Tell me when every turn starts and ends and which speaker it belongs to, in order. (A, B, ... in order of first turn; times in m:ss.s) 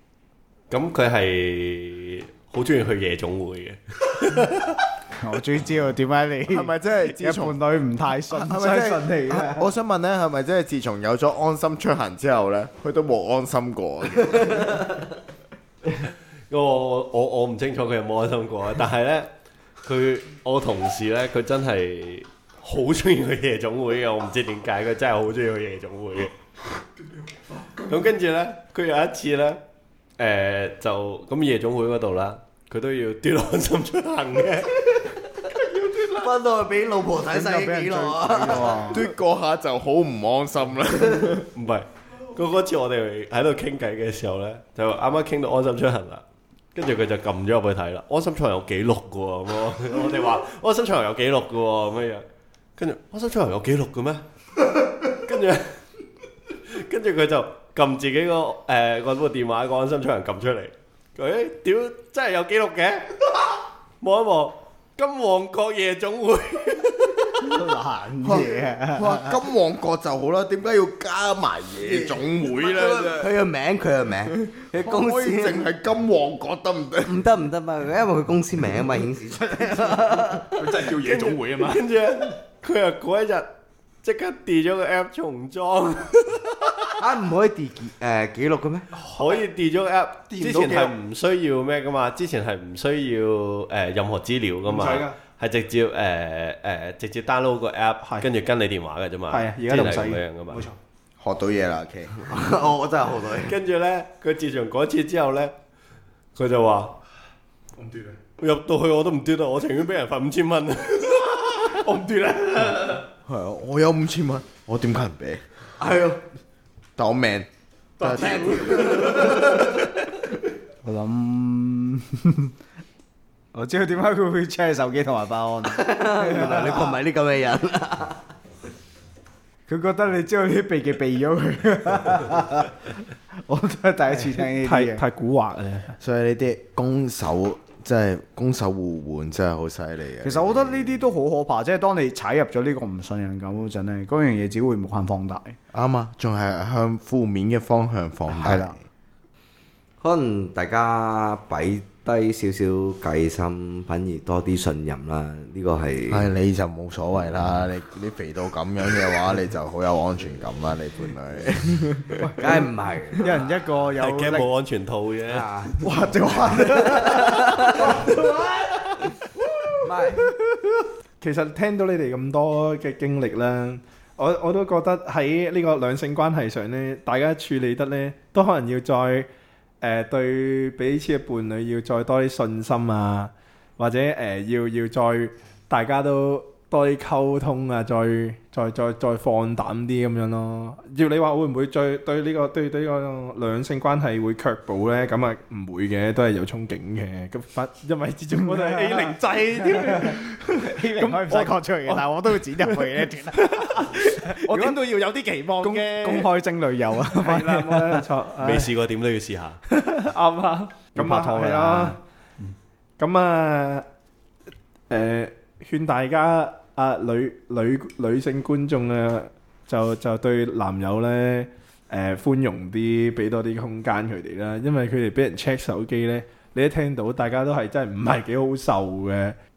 0:00.7-0:04.9 A
0:05.2-0:09.7 B
0:06.5-0:07.6 C
0:08.3-0:15.0 C
0:16.5-0:19.3 A
0:19.8-0:26.3 A
0:27.8-0:29.6 A
0:30.2-0:35.0 A
0:35.8-0:39.0 D
0:37.3-0:39.1 B
0:38.8-0:41.5 C
0:41.5-0:46.2 A
0:46.7-0:52.2 A
0:52.8-0:55.8 A
0:56.7-1:03.2 A
1:04.0-1:07.7 A
1:07.4-1:09.4 B
1:08.2-1:13.3 C
1:11.8-1:15.7 D
1:14.3-1:17.2 C
1:17.0-1:20.6 D
1:20.5-1:21.9 E
1:20.9-1:23.5 A
1:24.0-1:27.0 A
1:26.9-1:28.9 D
1:28.9-1:29.4 E
1:29.1-1:40.6 A
1:30.3-1:30.9 E
1:34.7-1:35.2 E
1:39.3-1:40.8 E
1:41.2-1:42.1 C
1:42.2-1:43.5 D
1:43.4-1:45.5 A
1:46.4-1:47.0 A
1:47.8-1:48.2 E
1:48.4-1:51.8 A
1:51.6-1:53.0 E
1:53.2-1:55.4 C
1:55.8-1:56.2 D
1:57.0-1:57.5 C
1:58.0-1:59.3 E
1:58.0-1:59.4 C
1:58.1-1:59.5 D
2:00.8-2:02.5 B
2:03.5-2:07.0 B
2:05.6-2:08.2 D
2:09.7-2:12.7 B
2:13.5-2:15.0 B
2:14.2-2:16.0 E
2:16.0-2:21.1 C
2:20.2-2:25.6 B
2:25.7-2:28.8 C
2:28.3-2:28.7 B
2:30.0-2:36.3 D
2:36.1-2:42.3 C
2:42.2-2:42.6 B
2:42.4-2:43.3 D
2:43.2-2:44.5 B
2:43.9-2:45.5 A
2:45.3-2:45.8 D
2:45.8-2:48.1 B
2:46.8-2:47.8 D
2:48.0-2:48.8 E
2:49.8-2:50.3 D
2:51.2-2:59.3 E
2:59.8-3:24.0 E
3:18.5-3:19.1 B
3:19.6-3:24.8 B
3:24.4-3:26.3 C
3:25.6-3:28.0 B
3:27.1-3:28.7 E
3:28.4-3:29.6 A
3:29.7-3:32.0 E
3:30.9-3:32.0 B
3:33.0-3:33.8 E
3:34.9-3:49.4 E